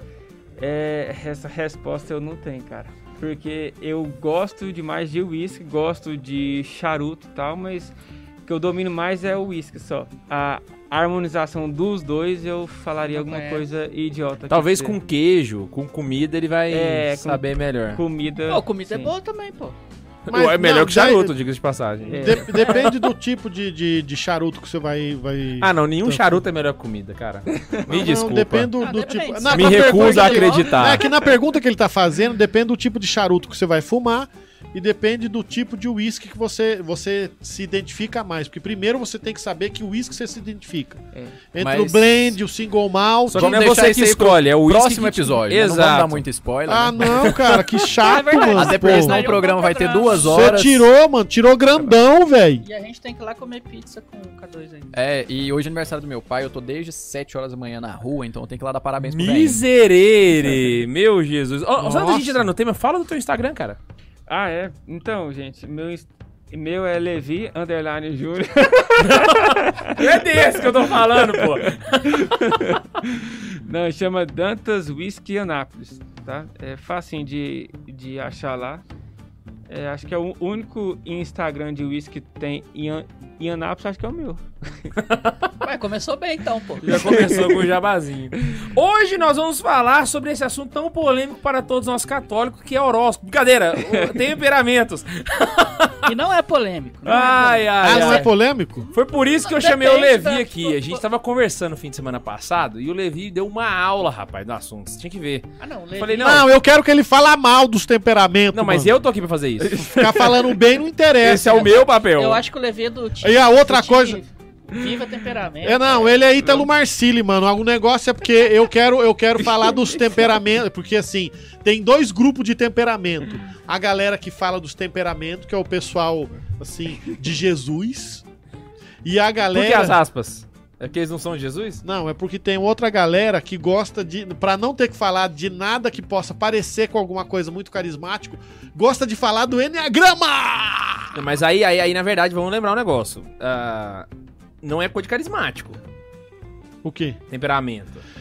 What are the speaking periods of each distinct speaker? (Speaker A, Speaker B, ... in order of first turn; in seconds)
Speaker A: 0.6-15.0, 16.7-19.1, 22.1-22.5, 27.5-27.9, 41.1-41.4, 64.3-78.8, 79.7-85.0, 86.9-87.6, 93.8-94.1
Speaker B: 13.1-13.7, 18.5-19.8, 22.6-22.9, 28.8-30.8, 48.0-50.6, 52.6-55.0, 85.6-87.3, 96.0-98.2, 99.4-101.0, 105.6-106.5, 111.6-116.2
Speaker C: 14.5-18.0, 20.3-23.0, 25.6-28.7, 29.5-31.1, 43.3-46.2, 47.2-47.8, 59.0-63.8, 69.0-71.8, 85.0-85.5, 86.8-96.1, 97.1-98.3, 98.9-106.5, 108.5-110.6, 111.2-112.4, 129.5-131.8, 141.1-144.1, 144.6-145.8, 147.3-148.0
Speaker D: 20.3-21.4, 22.2-26.4, 27.9-41.0, 41.5-43.5, 46.7-49.4, 50.2-52.6, 61.8-62.5, 97.8-98.9, 106.2-108.9, 109.8-111.8, 113.2-114.2, 115.6-128.2, 129.0-130.0, 131.8-141.2, 146.8-147.2
Speaker E: 41.6-42.0, 43.3-47.3, 48.4-50.9, 54.9-59.6